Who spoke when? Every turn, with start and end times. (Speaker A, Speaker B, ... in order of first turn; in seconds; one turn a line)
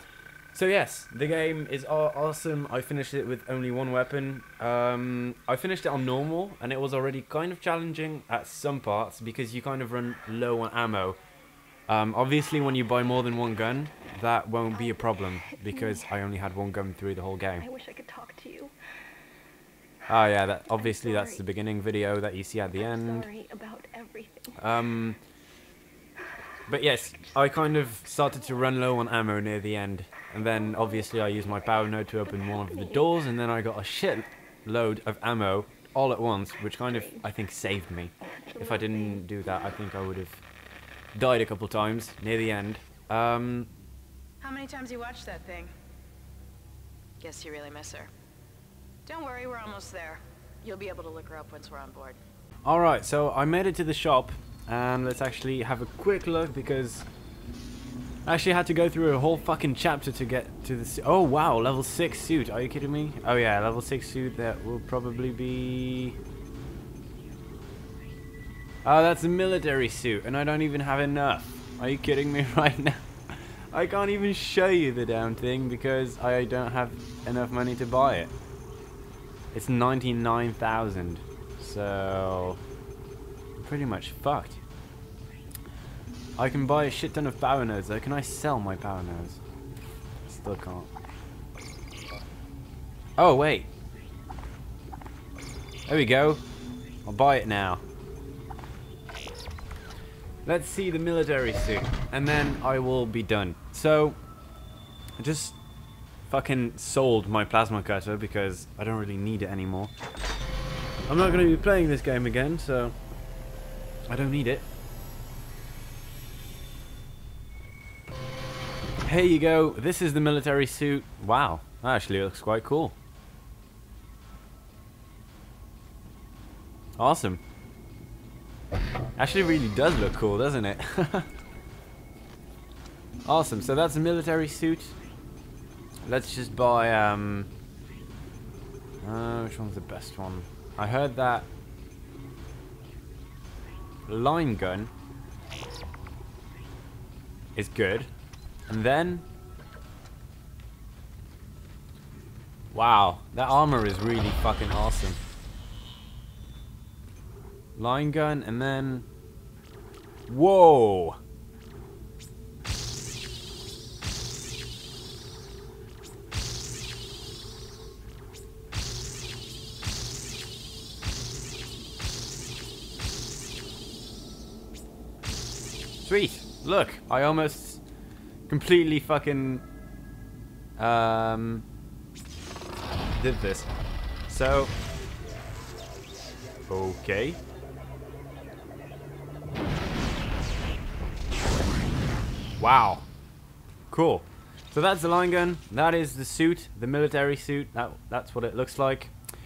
Speaker A: 0.5-11.2
Speaker A: 11.9-17.7
Speaker B: 17.6-18.7
Speaker A: 20.1-23.3
Speaker B: 20.9-21.4
Speaker B: 23.2-24.6
Speaker A: 24.6-25.2
Speaker A: 26.7-40.4
Speaker B: 38.4-39.2
Speaker A: 41.1-43.7
Speaker C: 44.4-45.7
Speaker C: 47.2-48.1
Speaker C: 49.0-52.2
Speaker A: 52.6-57.1
Speaker A: 58.2-66.2
Speaker A: 68.8-78.3
Speaker A: 79.5-82.6
Speaker A: 83.5-84.6
Speaker A: 86.3-89.4
Speaker A: 90.2-90.9
Speaker A: 93.2-93.7
Speaker A: 95.9-96.4
Speaker A: 97.0-97.8
Speaker A: 100.4-104.2
Speaker A: 105.2-105.6
Speaker A: 106.3-109.9
Speaker A: 111.1-113.0
Speaker A: 114.1-114.7
Speaker A: 119.0-123.0
Speaker A: 127.0-127.4
Speaker A: 129.2-131.3
Speaker A: 133.2-134.9
Speaker A: 136.1-137.5
Speaker A: 139.0-141.5
Speaker A: 144.1-144.9
Speaker A: 147.5-148.1
Speaker A: 148.7-149.2
Speaker A: 152.7-155.2
Speaker A: 157.8-159.1
Speaker A: 160.3-161.2
Speaker A: 176.0-177.8
Speaker A: 178.5-179.6
Speaker A: 180.8-181.7
Speaker A: 183.1-183.7
Speaker A: 184.3-184.7
Speaker A: 186.7-187.4
Speaker A: 192.6-193.1
Speaker A: 193.9-199.1